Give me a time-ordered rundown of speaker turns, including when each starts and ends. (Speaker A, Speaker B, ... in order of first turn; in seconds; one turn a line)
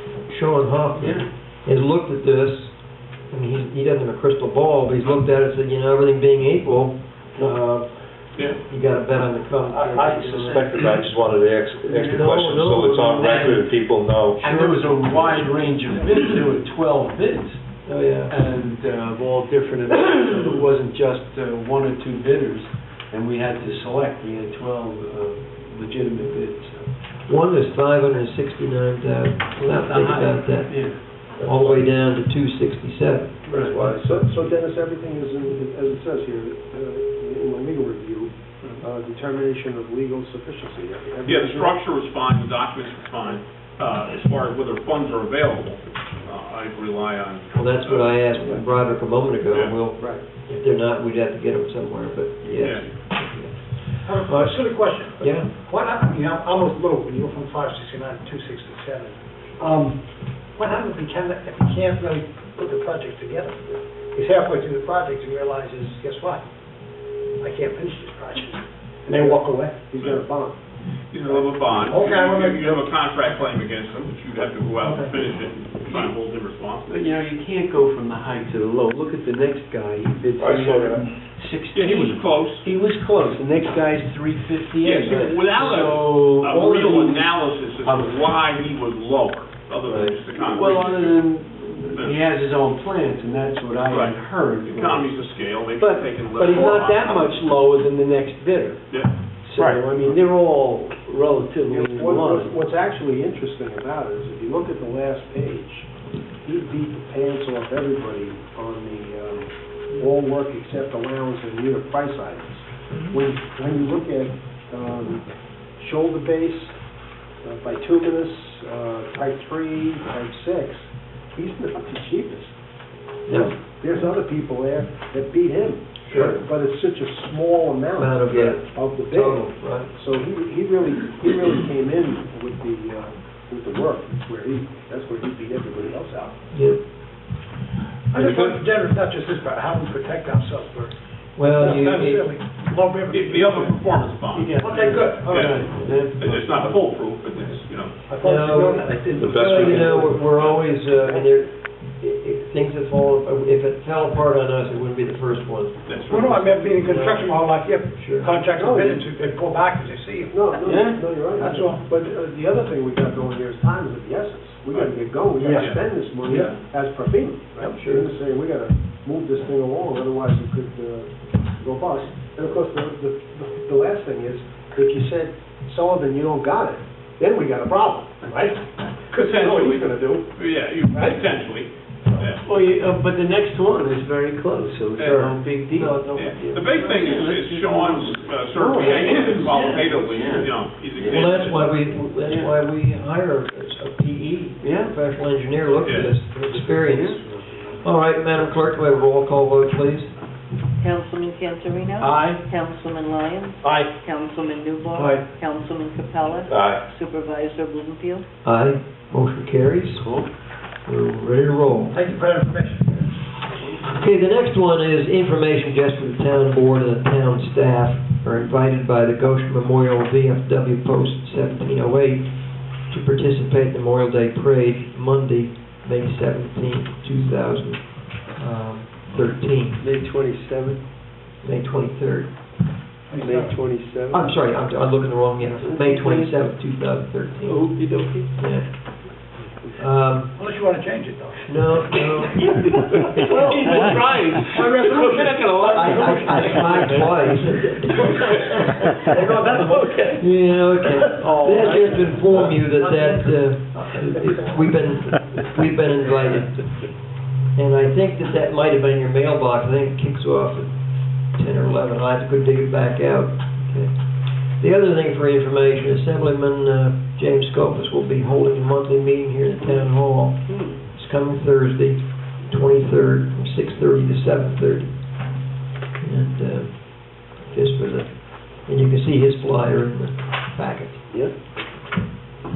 Speaker A: 0.3-10.8
Speaker B: 1.0-1.3
Speaker C: 9.9-14.4
Speaker B: 10.0-10.9
Speaker B: 11.9-13.5
Speaker A: 12.1-13.7
Speaker B: 14.4-17.6
Speaker A: 14.4-15.6
Speaker A: 17.8-18.3
Speaker B: 18.3-26.9
Speaker A: 27.2-34.4
Speaker B: 29.6-31.8
Speaker B: 33.5-33.9
Speaker D: 33.7-41.8
Speaker E: 41.2-48.2
Speaker A: 47.5-53.6
Speaker E: 52.5-52.9
Speaker F: 54.0-60.0
Speaker A: 55.2-55.5
Speaker F: 60.5-66.4
Speaker F: 67.4-69.8
Speaker D: 69.0-70.5
Speaker E: 71.1-77.0
Speaker F: 71.7-72.8
Speaker B: 76.9-88.3
Speaker C: 80.4-81.1
Speaker E: 81.7-82.7
Speaker E: 84.8-91.2
Speaker B: 89.9-98.8
Speaker E: 91.9-92.3
Speaker E: 93.9-97.3
Speaker E: 98.9-99.1
Speaker B: 99.4-102.5
Speaker D: 101.7-105.9
Speaker D: 106.4-115.2
Speaker A: 112.9-113.2
Speaker D: 115.8-116.7
Speaker D: 117.4-122.5
Speaker A: 123.3-123.5
Speaker D: 123.3-136.3
Speaker A: 126.1-126.4
Speaker A: 128.0-129.9
Speaker A: 136.5-136.8
Speaker F: 138.1-140.9
Speaker C: 138.2-138.5
Speaker A: 141.4-142.2
Speaker F: 141.5-143.8
Speaker E: 143.1-148.0
Speaker B: 144.3-147.1
Speaker F: 144.6-145.6
Speaker F: 148.1-150.2
Speaker A: 148.2-158.3
Speaker C: 149.2-150.1
Speaker E: 155.8-156.4
Speaker F: 156.1-160.3
Speaker D: 158.5-159.0
Speaker D: 160.3-178.6
Speaker B: 160.6-161.5
Speaker F: 161.5-161.8
Speaker A: 165.4-165.7
Speaker E: 165.5-166.6
Speaker A: 167.6-168.1
Speaker D: 179.2-180.2
Speaker B: 179.2-179.9
Speaker E: 180.3-182.4
Speaker B: 182.4-191.3
Speaker E: 185.0-185.5
Speaker A: 185.0-186.4
Speaker E: 186.1-191.8
Speaker A: 191.1-200.1
Speaker B: 192.2-192.6
Speaker B: 194.6-194.9
Speaker E: 195.8-196.1
Speaker B: 196.3-197.7
Speaker G: 200.8-208.2
Speaker B: 202.0-202.3
Speaker F: 203.6-203.9
Speaker C: 206.5-206.9
Speaker A: 208.4-210.1
Speaker B: 210.0-210.3
Speaker A: 210.8-211.9
Speaker F: 211.9-213.1
Speaker A: 213.9-229.8
Speaker B: 229.8-230.8
Speaker A: 231.4-232.3
Speaker F: 233.1-233.6
Speaker B: 233.2-234.3
Speaker A: 234.1-237.8
Speaker B: 235.4-236.3
Speaker B: 237.4-238.3
Speaker A: 238.3-239.1
Speaker A: 239.8-240.3
Speaker F: 240.3-241.6
Speaker A: 241.5-242.7
Speaker B: 242.4-247.4
Speaker F: 244.5-246.8
Speaker A: 245.7-256.9
Speaker F: 249.1-250.3
Speaker B: 251.2-252.6
Speaker F: 252.8-253.3
Speaker A: 257.5-263.9
Speaker A: 264.6-275.0
Speaker B: 270.5-270.8
Speaker A: 276.0-281.1